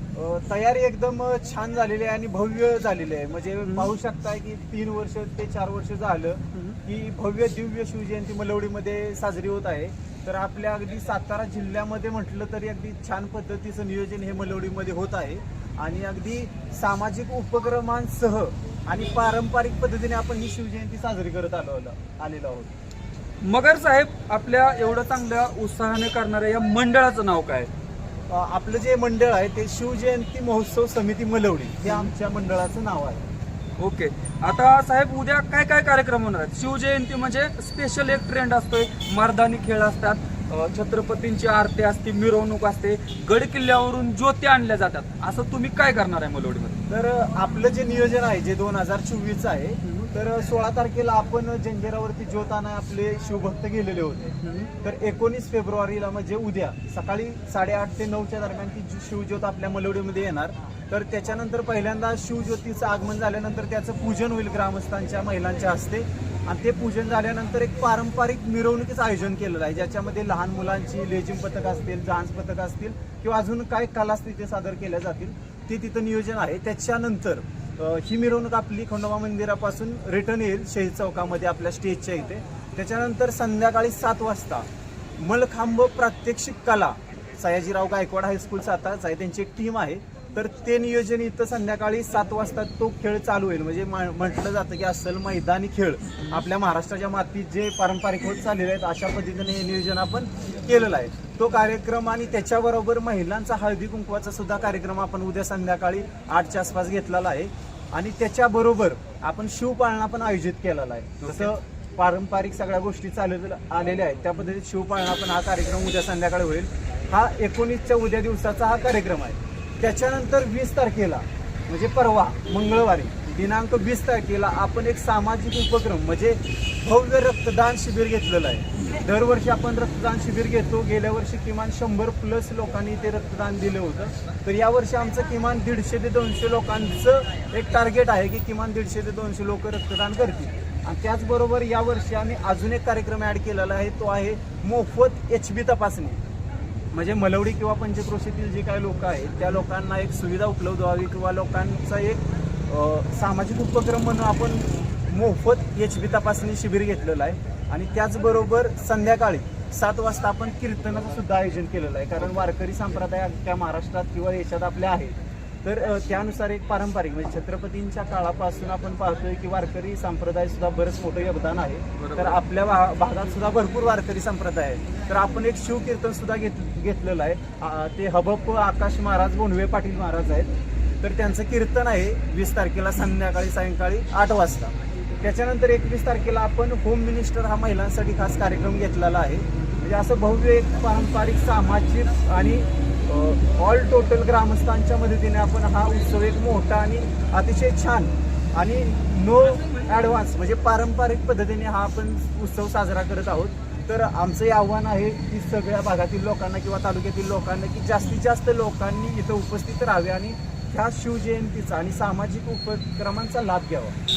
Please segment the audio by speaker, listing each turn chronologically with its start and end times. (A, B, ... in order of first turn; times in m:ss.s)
0:00.1-0:22.7 A
0:03.6-0:03.9 B
0:23.4-0:27.7 B
0:28.3-0:33.2 A
0:33.8-0:46.8 B
0:46.9-2:26.2 A
0:49.8-0:50.1 B
0:54.4-0:54.7 B
1:51.2-1:51.5 B
2:26.9-3:00.5 A
2:52.0-2:52.4 B
3:01.0-3:34.0 A
3:19.6-3:19.9 B